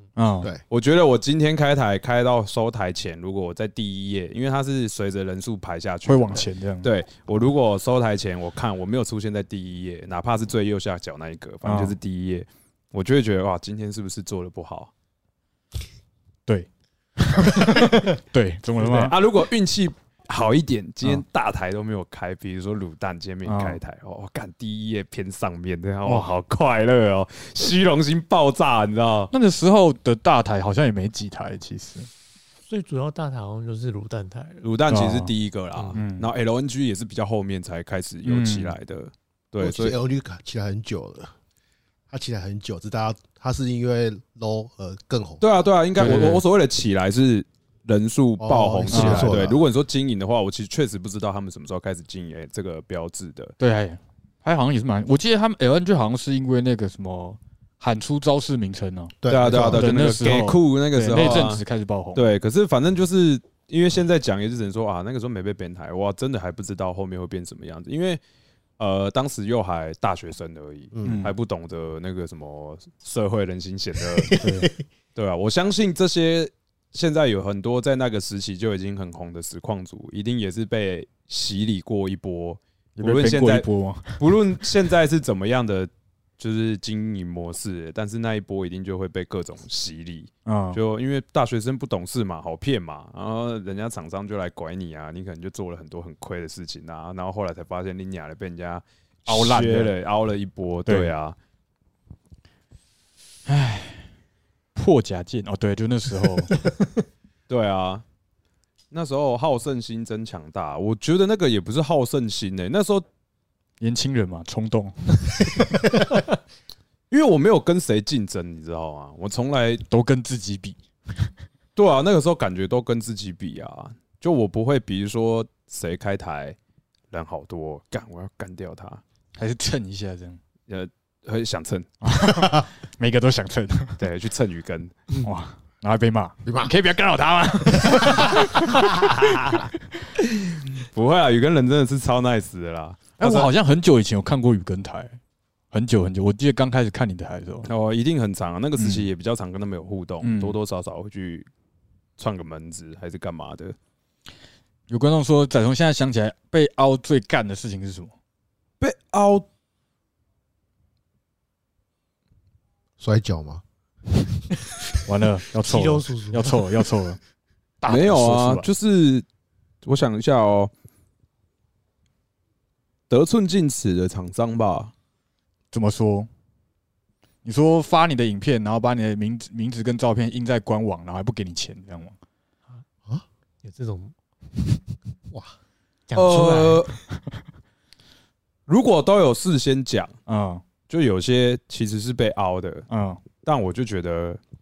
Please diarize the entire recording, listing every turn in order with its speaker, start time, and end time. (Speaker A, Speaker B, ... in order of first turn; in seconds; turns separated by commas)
Speaker A: 0.1-0.5, Speaker B: 0.7-14.9, Speaker A: 6.0-6.9, Speaker A: 11.6-11.9, Speaker A: 16.4-19.1, Speaker B: 19.0-29.3, Speaker A: 23.4-23.8, Speaker A: 29.3-32.1, Speaker C: 32.7-34.6, Speaker B: 34.6-40.0, Speaker A: 34.9-35.3, Speaker A: 35.9-36.3, Speaker A: 38.2-38.7, Speaker D: 39.6-41.3, Speaker D: 42.1-45.4, Speaker B: 45.4-53.5, Speaker A: 46.0-46.4, Speaker D: 48.4-49.6, Speaker A: 48.9-49.4, Speaker A: 53.6-62.3, Speaker D: 59.2-60.2, Speaker B: 59.3-68.2, Speaker D: 61.1-61.5, Speaker B: 68.8-74.4, Speaker D: 70.9-71.2, Speaker A: 71.0-71.3, Speaker C: 74.3-74.7, Speaker A: 74.4-74.7, Speaker B: 75.1-101.3, Speaker A: 83.0-84.2, Speaker A: 90.4-90.8, Speaker A: 99.3-99.9, Speaker A: 103.5-104.1, Speaker A: 104.7-106.5, Speaker B: 107.5-108.0, Speaker B: 108.9-113.0, Speaker A: 113.8-115.5, Speaker B: 117.1-119.8, Speaker A: 119.9-121.3, Speaker B: 121.8-126.6, Speaker B: 127.1-129.0, Speaker A: 129.4-130.4, Speaker B: 130.7-131.9, Speaker A: 132.0-134.0, Speaker B: 134.0-134.9, Speaker A: 135.2-139.0, Speaker D: 136.4-136.7, Speaker B: 139.3-139.6, Speaker B: 140.8-143.5, Speaker A: 143.2-145.2, Speaker A: 145.7-147.7, Speaker B: 147.6-151.5, Speaker A: 148.8-149.1, Speaker A: 150.2-150.6, Speaker B: 152.2-153.8, Speaker A: 154.9-158.1, Speaker B: 158.8-159.5, Speaker D: 163.0-163.6, Speaker A: 165.0-167.2, Speaker C: 165.6-166.7, Speaker A: 167.8-168.7, Speaker B: 167.8-169.2, Speaker B: 169.8-170.7, Speaker B: 173.1-174.9, Speaker A: 175.7-176.3, Speaker A: 177.4-182.1, Speaker C: 183.6-184.1, Speaker C: 186.1-187.0, Speaker B: 186.1-186.9, Speaker B: 188.7-190.2, Speaker A: 190.3-190.6, Speaker B: 190.9-192.8, Speaker A: 192.9-193.2, Speaker B: 193.4-194.4